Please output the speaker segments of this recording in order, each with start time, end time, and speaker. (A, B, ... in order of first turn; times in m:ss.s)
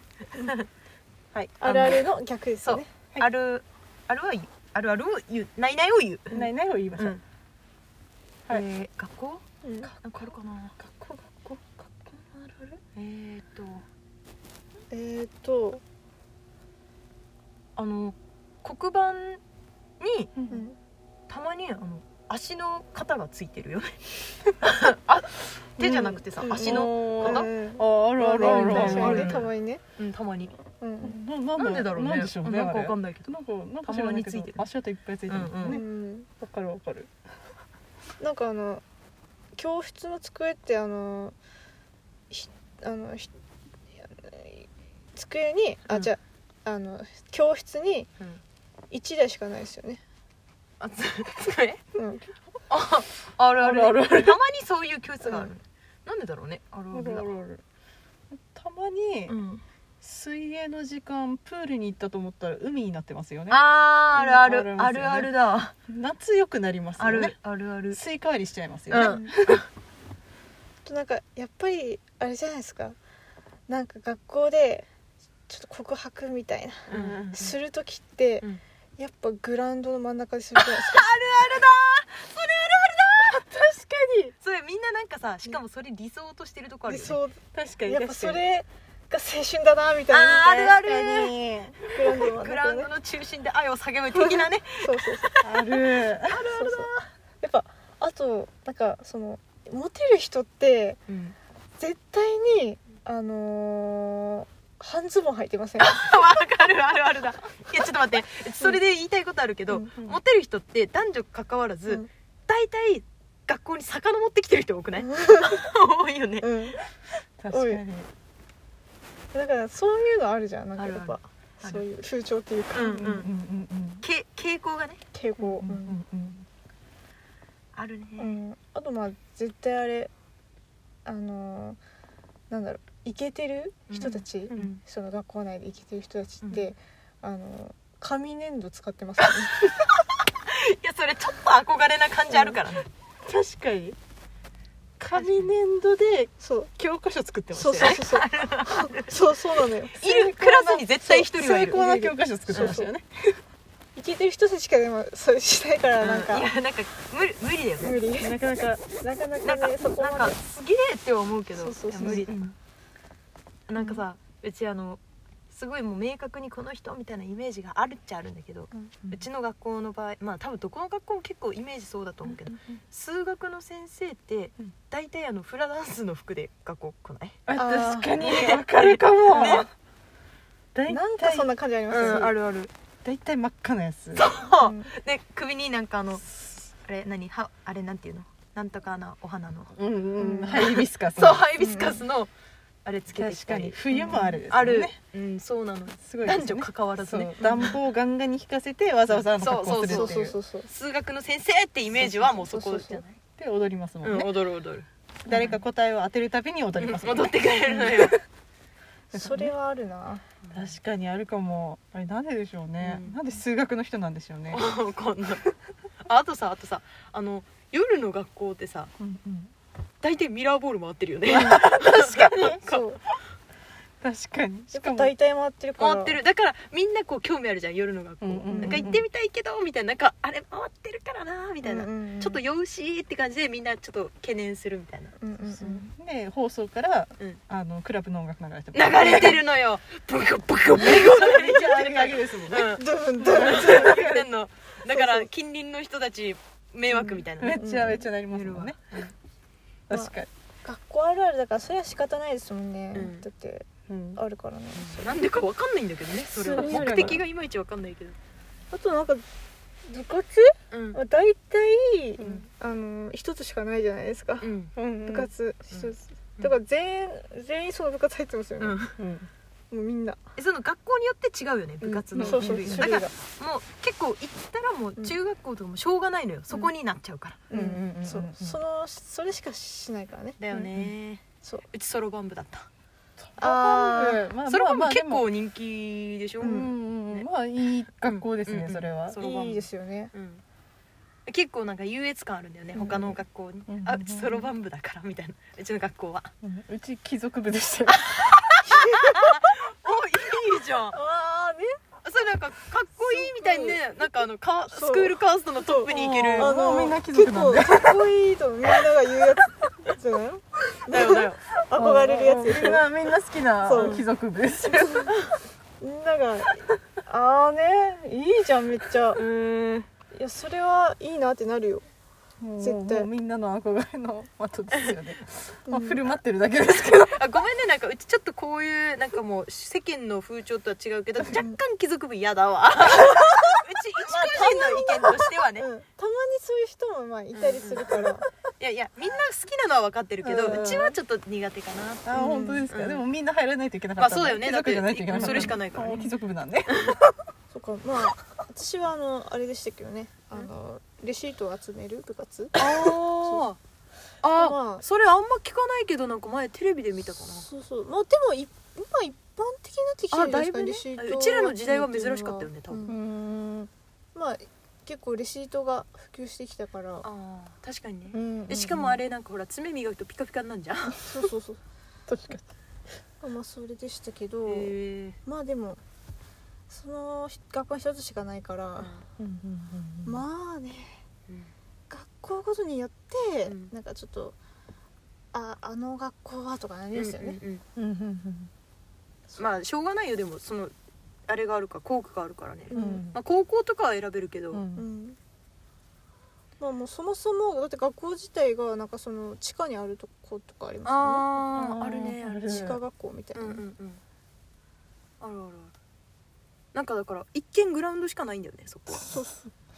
0:00.4-0:00.6 A
0:01.3-0:02.0 B
0:01.6-0:02.9 C
0:01.6-0:02.0 A
0:02.6-0:06.4 A
0:06.3-0:07.2 B
0:07.0-0:07.2 A
0:08.5-0:10.7 A
0:09.6-0:09.9 C
0:10.2-0:12.8 B
0:13.0-0:13.8 A
0:14.9-0:15.8 C
0:17.8-0:19.4 A
0:20.0-0:20.3 A
0:20.4-0:20.6 B
0:20.5-0:20.8 C
0:21.3-0:24.0 A
0:24.6-0:27.5 A
0:25.8-0:29.5 B
0:26.4-0:29.8 C
0:28.2-0:30.5 A
0:30.8-0:31.2 C
0:31.0-0:37.1 B
0:31.6-0:34.6 A
0:35.3-0:35.8 A
0:35.6-0:36.3 C
0:38.2-0:38.8 C
0:39.5-0:41.4 C
0:42.3-0:43.3 C
0:44.0-0:48.1 C
0:48.9-0:50.0 C
0:50.8-0:51.8 A
0:52.0-0:52.3 C
0:52.7-0:57.3 A
0:53.6-0:54.4 B
0:55.2-0:55.5 C
0:56.9-0:57.6 B
0:58.3-0:59.3 B
0:59.3-0:59.6 A
1:00.0-1:05.3 B
1:03.5-1:05.7 A
1:05.9-1:07.4 B
1:07.0-1:08.0 A
1:07.9-1:09.6 B
1:08.9-1:09.3 A
1:08.9-1:09.3 C
1:10.8-1:13.0 C
1:13.7-1:14.9 C
1:15.5-1:18.4 C
1:16.9-1:17.4 B
1:16.9-1:17.5 A
1:19.0-1:21.1 C
1:20.5-1:23.4 A
1:23.2-1:24.3 B
1:24.4-1:27.2 A
1:26.9-1:30.8 C
1:27.5-1:28.4 B
1:30.1-1:31.3 A
1:30.8-1:32.2 B
1:31.9-1:32.9 C
1:32.2-1:37.1 A
1:34.1-1:35.4 C
1:35.4-1:36.4 B
1:36.5-1:36.9 C
1:37.4-1:41.0 C
1:41.1-1:41.3 A
1:41.8-1:46.0 C
1:45.8-1:56.5 A
1:55.0-1:55.6 C
1:56.4-1:56.8 C
1:57.4-1:58.1 B
1:57.5-1:57.8 C
1:59.3-2:03.1 C
2:00.8-2:01.8 A
2:02.7-2:03.3 A
2:02.9-2:04.0 B
2:04.0-2:05.0 A
2:05.1-2:06.0 C
2:05.4-2:06.4 B
2:07.7-2:08.4 A
2:08.2-2:10.1 C
2:11.0-2:11.8 C
2:12.5-2:19.5 C
2:13.9-2:14.8 A
2:16.4-2:16.7 A
2:19.2-2:22.9 A
2:22.3-2:22.6 C
2:23.2-2:24.0 B
2:25.0-2:28.0 B
2:25.1-2:25.5 A
2:26.4-2:26.7 C
2:27.5-2:30.0 C
2:27.8-2:29.1 A
2:29.9-2:32.8 A
2:30.0-2:33.4 B
2:31.9-2:32.9 C
2:33.9-2:36.5 C
2:36.0-2:38.0 A
2:37.8-2:38.4 C
2:38.2-2:38.8 B
2:39.0-2:40.4 C
2:39.4-2:42.5 A
2:41.6-2:42.3 C
2:41.9-2:42.5 B
2:43.7-2:57.5 A
2:57.5-2:59.7 B
2:57.5-2:58.2 C
2:58.2-2:59.7 A
3:00.7-3:01.5 B
3:00.9-3:02.3 C
3:01.9-3:02.7 A
3:02.0-3:02.2 B
3:03.0-3:04.2 B
3:04.1-3:09.7 A
3:04.6-3:04.9 C
3:09.8-3:11.4 B
3:10.2-3:10.6 C
3:10.5-3:12.3 A
3:11.6-3:12.0 C
3:12.8-3:13.8 A
3:13.1-3:15.0 B
3:13.9-3:14.4 C
3:14.5-3:17.8 A
3:16.0-3:20.3 B
3:19.1-3:23.1 A
3:19.8-3:20.7 C
3:21.9-3:23.0 C
3:23.4-3:24.3 B
3:24.0-3:25.6 A
3:25.2-3:28.2 B
3:26.8-3:28.2 A
3:29.1-3:29.5 B
3:29.1-3:30.2 C
3:30.4-3:30.7 A
3:30.5-3:34.6 B
3:32.8-3:33.2 A
3:34.5-3:35.4 A
3:36.0-3:38.9 A
3:39.0-3:39.5 B
3:40.0-3:42.8 A
3:41.3-3:42.6 B
3:42.6-3:43.0 C
3:44.0-3:45.1 B
3:44.7-3:46.2 C
3:45.8-3:55.1 A
3:48.2-3:49.0 B
3:48.5-3:48.9 C
3:51.6-3:52.4 C
3:55.2-3:55.8 C
3:55.4-3:59.4 B
3:58.7-4:02.8 A
4:00.8-4:04.2 B
4:02.7-4:04.1 C
4:03.3-4:09.1 A
4:04.9-4:05.3 C
4:07.2-4:08.8 B
4:07.5-4:08.1 C
4:09.9-4:10.3 B
4:09.9-4:15.1 C
4:12.9-4:13.2 A
4:13.9-4:14.2 B
4:14.7-4:18.2 A
4:16.3-4:17.2 C
4:16.6-4:17.2 B
4:18.7-4:19.2 C
4:19.8-4:28.8 C
4:20.7-4:21.0 A
4:22.2-4:22.5 B
4:24.4-4:24.7 A
4:24.8-4:25.3 B
4:25.7-4:26.5 A
4:28.6-4:29.0 A
4:29.0-4:29.3 B
4:29.7-4:30.2 C
4:30.4-4:37.4 A
4:31.8-4:33.1 C
4:32.1-4:33.0 B
4:37.5-4:40.4 C
4:37.5-4:38.6 B
4:40.4-4:42.7 A
4:40.5-4:40.9 B
4:43.2-4:45.3 B
4:43.4-4:44.2 C
4:44.3-4:47.2 A
4:46.4-4:49.2 B
4:46.4-4:46.7 C
4:48.0-4:50.4 A
4:49.1-4:50.1 C
4:51.2-4:56.3 A
4:52.7-4:53.1 B
4:53.7-4:54.5 B
4:56.4-4:58.2 B
4:57.9-5:01.0 A
5:00.9-5:01.8 C
5:02.0-5:06.5 A
5:03.0-5:03.8 C
5:04.7-5:12.9 C
5:05.8-5:08.1 B
5:10.9-5:11.4 A
5:11.7-5:15.2 B
5:13.6-5:14.0 C
5:13.8-5:14.0 A
5:15.8-5:19.2 C
5:19.1-5:19.9 A
5:20.1-5:21.9 C
5:22.4-5:27.2 B
5:22.6-5:23.1 C
5:25.7-5:26.0 C
5:26.9-5:35.7 A
5:34.1-5:38.2 C
5:37.3-5:42.2 A
5:40.2-5:41.0 B
5:42.0-5:47.0 B
5:42.1-5:42.7 C
5:42.7-5:43.0 A
5:44.0-5:46.1 A
5:45.1-5:45.5 C
5:47.5-5:53.4 C
5:52.6-5:53.6 A
5:54.2-5:57.4 A
5:54.3-5:54.8 C
5:57.4-6:03.0 C
6:00.1-6:02.9 A
6:02.9-6:03.7 B
6:04.1-6:07.0 C
6:07.0-6:11.0 A
6:08.1-6:08.9 B
6:11.0-6:11.6 C
6:12.1-6:12.4 B
6:13.2-6:15.8 C
6:14.4-6:15.2 A
6:16.7-6:18.9 C
6:18.8-6:19.0 A
6:19.2-6:20.2 B
6:20.0-6:21.0 C
6:21.9-6:24.4 C
6:23.4-6:23.7 A
6:25.3-6:27.4 C
6:26.9-6:27.6 A
6:27.8-6:28.5 B
6:29.4-6:30.7 A
6:31.3-6:34.6 A
6:32.7-6:33.1 C
6:32.7-6:33.2 B
6:34.5-6:34.9 B
6:34.7-6:35.2 C
6:36.6-6:41.6 C
6:40.8-6:42.8 A
6:41.5-6:42.8 B
6:42.4-6:43.6 C
6:43.3-6:44.0 A
6:45.2-6:45.7 A
6:46.7-6:49.1 A
6:49.0-6:49.4 C